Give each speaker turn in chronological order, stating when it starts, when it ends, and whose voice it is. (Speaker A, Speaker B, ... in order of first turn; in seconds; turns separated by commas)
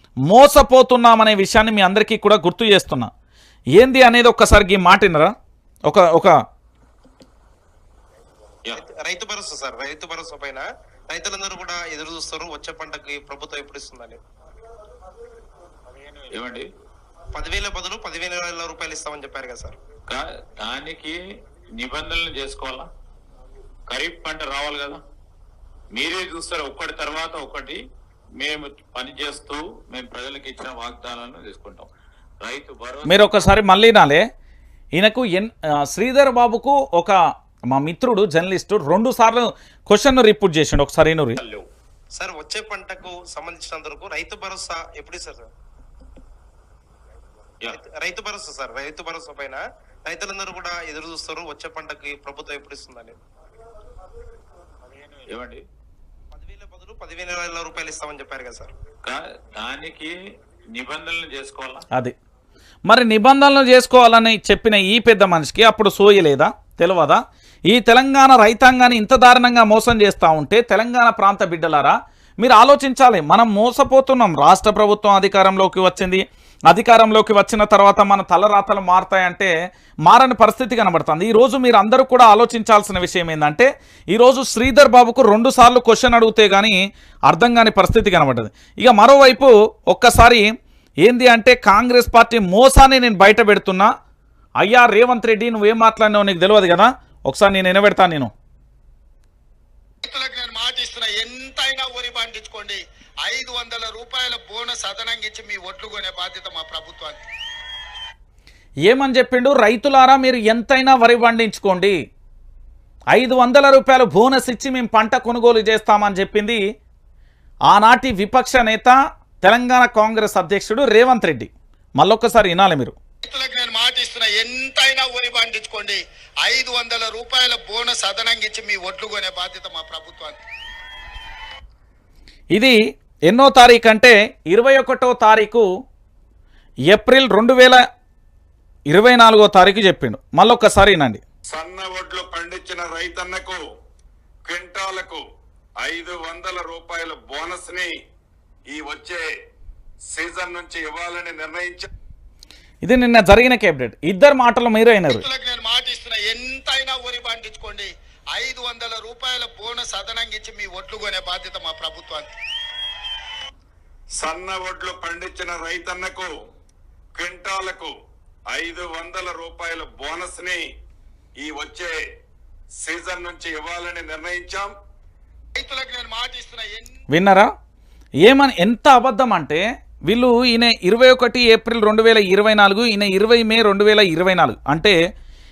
Speaker A: 0.3-3.1, Speaker A: 3.8-5.3, Speaker A: 5.9-6.3, Speaker B: 8.7-14.2, Speaker C: 16.1-16.7, Speaker B: 17.3-19.8, Speaker C: 20.1-21.2, Speaker C: 21.8-22.9, Speaker C: 23.9-25.0, Speaker C: 25.9-27.8, Speaker C: 28.4-31.9, Speaker C: 32.4-33.5, Speaker A: 33.1-34.2, Speaker A: 35.0-37.2, Speaker A: 37.7-41.4, Speaker B: 42.2-45.5, Speaker B: 47.7-53.1, Speaker C: 55.1-55.6, Speaker B: 56.3-58.7, Speaker C: 59.0-60.1, Speaker C: 60.7-61.8, Speaker A: 62.9-79.5, Speaker A: 80.1-86.8, Speaker A: 87.3-90.5, Speaker A: 91.0-93.9, Speaker A: 94.6-98.3, Speaker D: 100.0-107.2, Speaker A: 108.9-111.9, Speaker A: 113.1-116.6, Speaker A: 117.7-123.0, Speaker D: 123.2-130.4, Speaker A: 133.3-135.7, Speaker A: 136.9-137.8, Speaker A: 138.9-141.2, Speaker E: 141.5-143.6, Speaker E: 144.4-145.2, Speaker E: 145.8-147.9, Speaker E: 148.7-149.3, Speaker E: 150.1-151.9, Speaker A: 152.8-155.2, Speaker D: 155.1-162.3, Speaker E: 164.2-166.3, Speaker E: 167.1-167.9, Speaker E: 168.5-170.6, Speaker E: 171.4-172.0, Speaker E: 172.8-174.7, Speaker D: 175.6-176.9, Speaker A: 177.1-177.5, Speaker A: 178.2-185.0